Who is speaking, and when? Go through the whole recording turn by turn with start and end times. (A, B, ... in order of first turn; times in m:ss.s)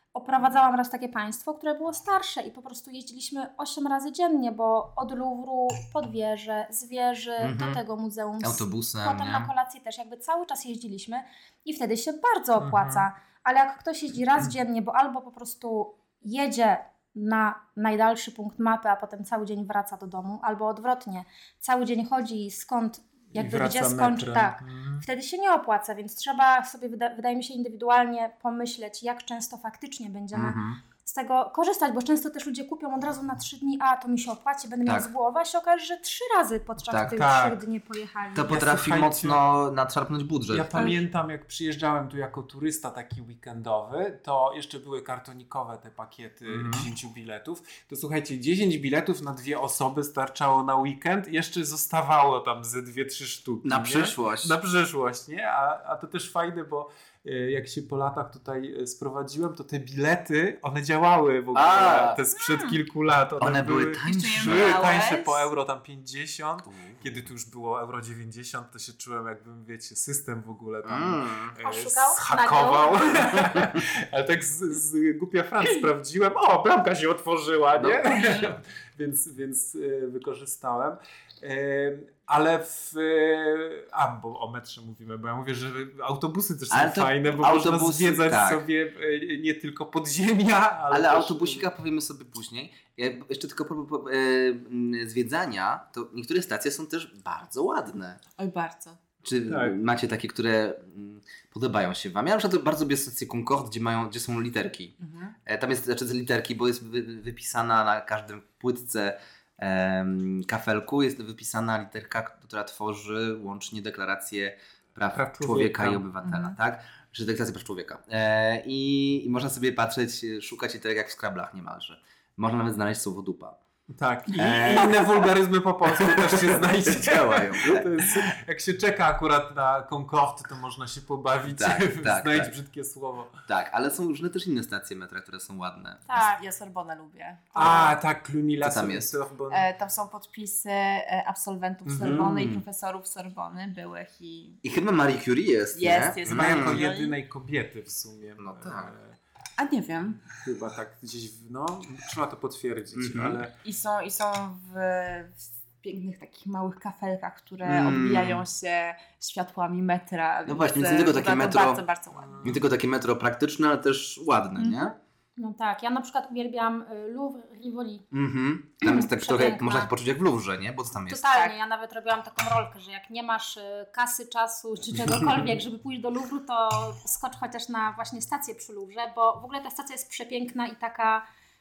0:00.1-0:38.7 A
0:07.4-0:07.8 B
0:08.4-0:09.5 B
0:12.6-0:13.0 C
0:23.3-0:25.0 C
0:30.3-0:30.6 C
0:30.4-0:30.8 B
0:34.8-0:35.1 B
0:36.9-0:37.2 B
0:37.1-0:37.6 C
0:38.3-0:41.0 B
0:38.5-0:39.4 C
0:40.5-1:31.7 C
0:46.5-0:46.9 B
0:53.6-0:54.5 B
1:01.5-1:02.2 B
1:02.4-1:02.8 D
1:03.4-1:04.9 B
1:04.1-1:05.5 D
1:06.6-1:07.0 B
1:10.8-1:11.6 B
1:11.6-1:13.5 A
1:17.7-1:18.5 B
1:26.7-1:28.6 B
1:30.9-1:38.2 B
1:38.4-1:39.0 D
1:39.2-1:44.9 B
1:39.5-1:39.8 C
1:45.0-1:45.3 D
1:45.4-2:03.6 B
1:55.1-1:56.0 C
1:56.2-1:56.5 D
2:03.9-2:13.4 C
2:04.3-2:05.2 B
2:05.9-2:08.3 B
2:11.4-2:12.5 B
2:13.4-2:16.1 B
2:16.1-2:16.4 A
2:16.1-2:17.9 D
2:17.5-2:18.0 A
2:17.5-2:19.7 C
2:18.6-2:19.1 B
2:19.5-2:24.6 D
2:21.9-2:22.3 C
2:22.0-2:22.6 B
2:24.6-2:26.8 B
2:25.7-2:27.2 D
2:26.2-2:29.1 C
2:28.4-2:28.9 B
2:29.6-2:30.2 D
2:30.2-2:33.5 C
2:32.9-2:33.4 B
2:33.6-2:42.4 D
2:37.6-2:38.4 B
2:40.4-2:41.8 B
2:42.2-2:42.6 C
2:42.4-2:44.9 B
2:44.6-2:44.9 D
2:45.4-2:48.0 A
2:48.1-2:51.3 B
2:48.8-2:49.9 A
2:51.1-3:01.2 A